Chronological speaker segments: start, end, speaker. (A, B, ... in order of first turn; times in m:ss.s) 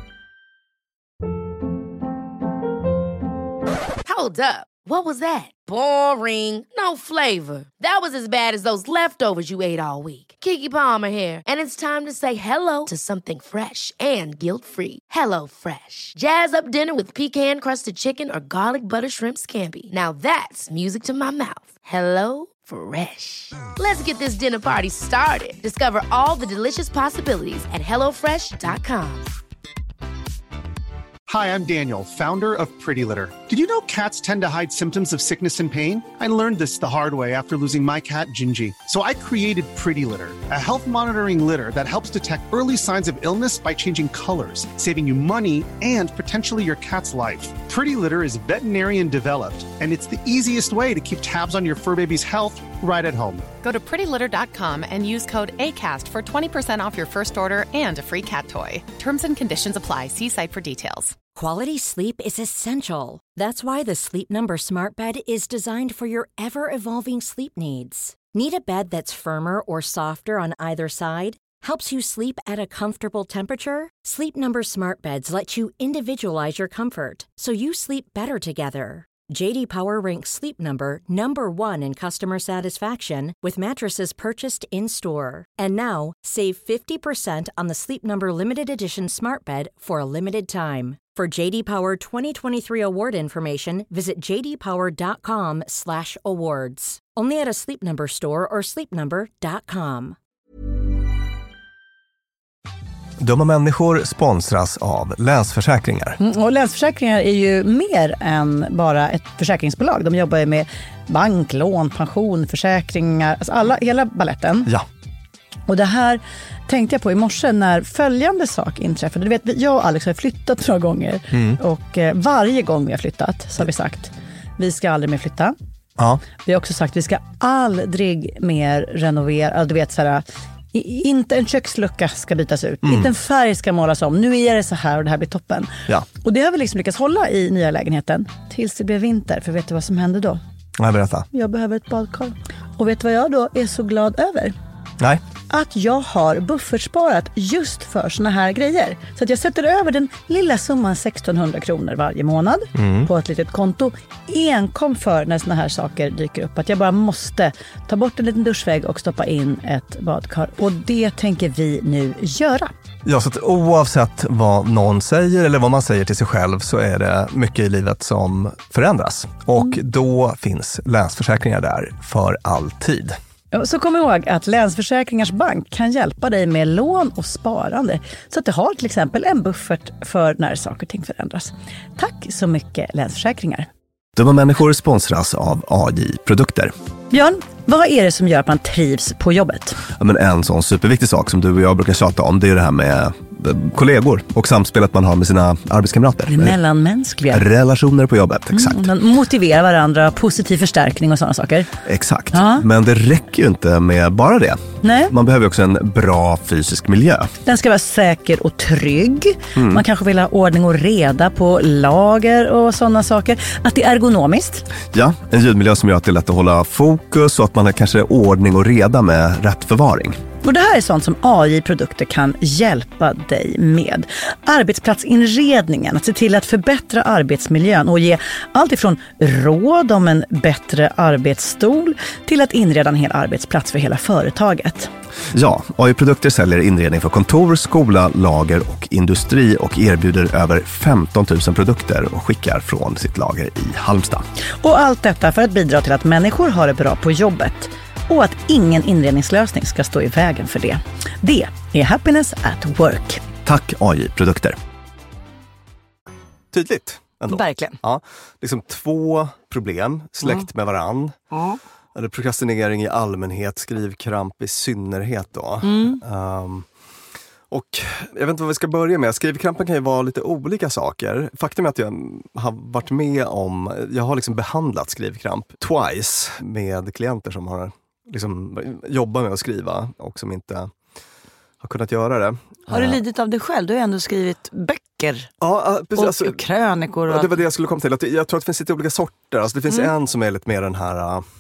0:04.0-0:29.3 A
0:31.3-0:53.5 B
0:53.6-1:01.2 C
1:01.4-1:40.2 D
1:43.2-1:46.2 E
1:46.2-1:54.7 F
1:55.7-2:05.5 F
2:01.3-2:01.6 E
2:06.0-2:06.2 E
2:06.4-2:10.2 F
2:10.7-2:15.7 F
2:12.8-2:13.1 E
2:16.2-2:20.4 F
2:20.8-2:21.3 E
2:21.3-2:24.5 F
2:25.5-2:42.7 F
2:32.8-2:33.1 E
2:43.0-2:53.2 E
2:53.5-3:03.7 F
3:04.1-3:06.7 E
3:07.1-3:09.8 F
3:09.9-3:16.6 E
3:16.3-3:17.4 F
3:17.3-3:19.0 E
3:18.5-3:21.7 F
3:21.8-3:27.4 E
3:22.3-3:22.6 F
3:24.8-3:25.1 F
3:27.4-3:34.6 F
3:29.5-3:29.8 E
3:34.8-3:40.2 E
3:40.4-3:54.9 F
3:55.3-4:04.2 E
4:04.6-4:13.2 F
4:13.4-4:14.6 E
4:16.5-4:21.2 E
4:17.3-4:17.8 F
4:21.9-4:26.7 E
4:25.6-4:26.0 F
4:27.5-4:40.7 E
4:41.6-4:43.0 E
4:42.7-4:45.3 F
4:45.4-4:46.4 E
4:46.0-4:47.4 F
4:47.1-4:51.2 E